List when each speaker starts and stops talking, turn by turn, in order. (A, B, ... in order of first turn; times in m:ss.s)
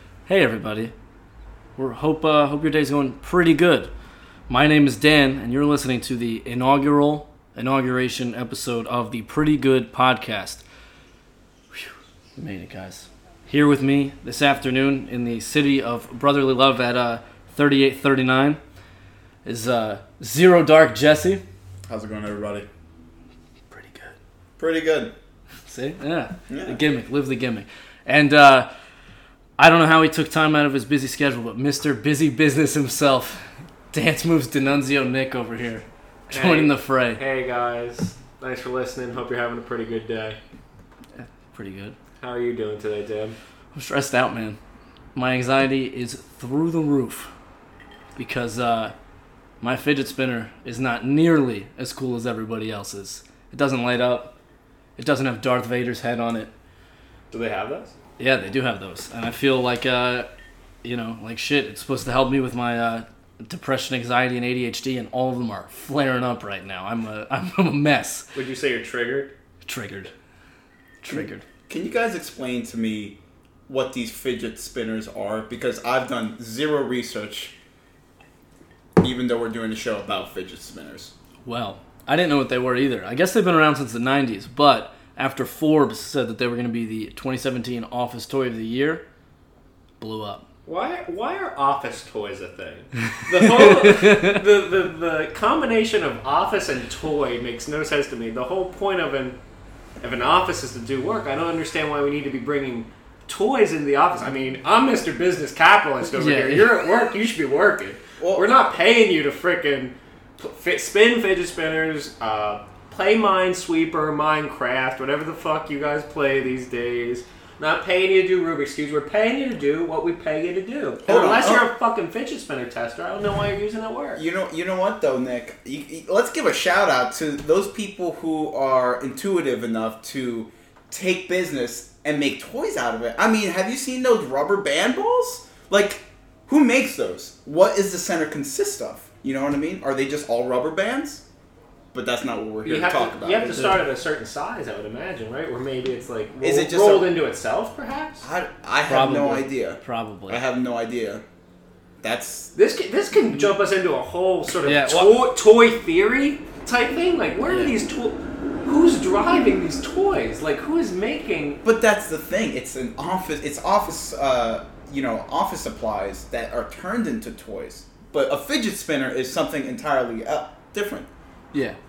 0:00.3-0:00.9 A
0:01.8-0:03.9 A
0:04.5-0:10.6 A
0:11.7-0:18.6 A
0:19.4-0:21.4 A
0:21.9-0:22.7 B
0:23.7-0:24.1 A
0:24.6-0:25.1 B
0:25.6-0:28.7 A
0:26.5-0:26.8 B
0:29.6-0:37.2 A
0:36.3-0:40.4 C
0:41.2-0:42.0 A
0:42.2-0:43.4 C
0:43.7-0:44.6 A
0:45.1-0:47.3 A
0:48.2-0:49.0 A
0:49.6-0:54.3 A
0:55.0-0:56.5 A
0:57.3-0:57.9 C
0:58.2-1:00.3 A
1:00.8-1:08.3 A
1:08.4-1:09.3 C
1:09.6-1:10.1 A
1:11.0-1:11.4 A
1:11.7-1:13.2 B
1:13.7-1:17.5 B
1:19.0-1:21.1 B
1:21.5-1:29.0 A
1:30.0-1:30.4 A
1:30.7-1:39.4 C
1:33.2-1:34.4 A
1:40.0-2:04.2 C
1:46.2-1:46.7 A
1:48.2-1:48.5 B
2:01.0-2:01.7 B
2:04.2-2:21.2 B
2:21.9-2:23.8 B
2:22.6-2:28.2 C
2:26.4-2:27.1 B
2:28.2-2:31.2 B
2:28.9-2:30.4 A
2:32.0-2:32.5 B
2:32.5-2:41.6 C
2:34.6-2:35.1 A
2:37.5-2:37.7 A
2:41.6-2:51.1 B